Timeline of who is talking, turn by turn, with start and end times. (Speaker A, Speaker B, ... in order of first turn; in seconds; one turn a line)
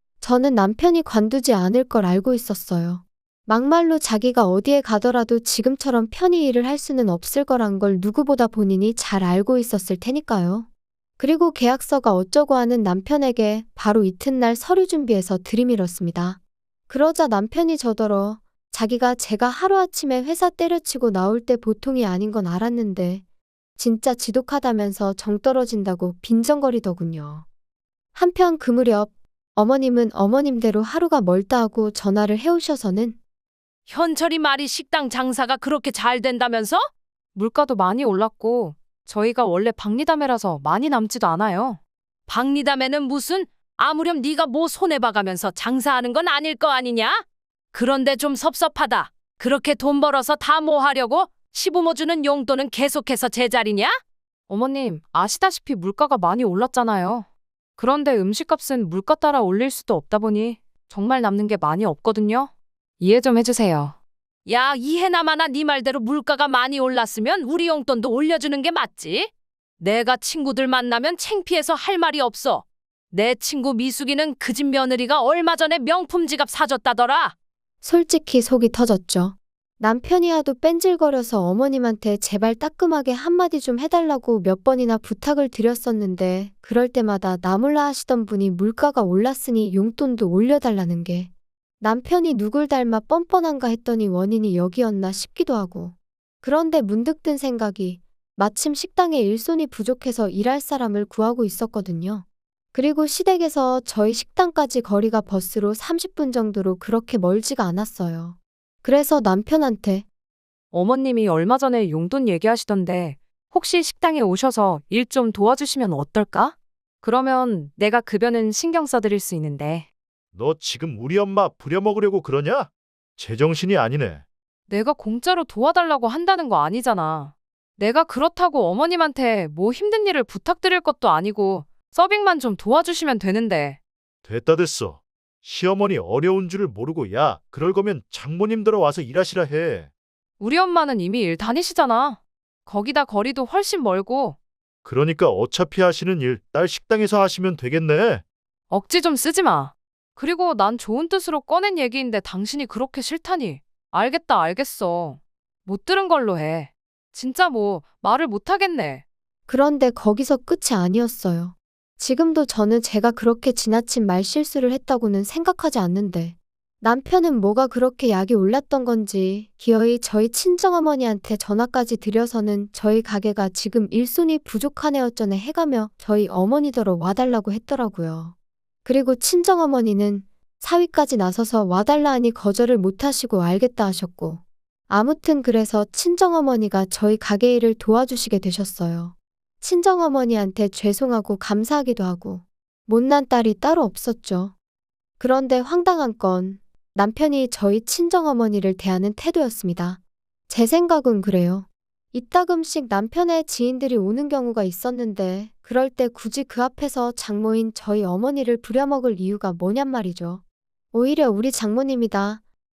Speaker A: 0.2-10.7
Speaker A: 11.2-16.4
Speaker A: 16.9-23.2
Speaker A: 23.8-27.4
Speaker A: 28.1-33.2
Speaker B: 33.9-57.2
Speaker B: 57.8-63.9
Speaker B: 64.5-77.3
Speaker A: 77.8-110.0
Speaker B: 110.7-119.8
Speaker C: 120.3-124.2
Speaker B: 124.7-133.8
Speaker C: 134.2-139.9
Speaker B: 140.4-144.3
Speaker C: 144.8-148.2
Speaker B: 148.7-159.0
Speaker A: 159.5-194.5
Speaker A: 195.2-210.4
Speaker A: 210.9-212.4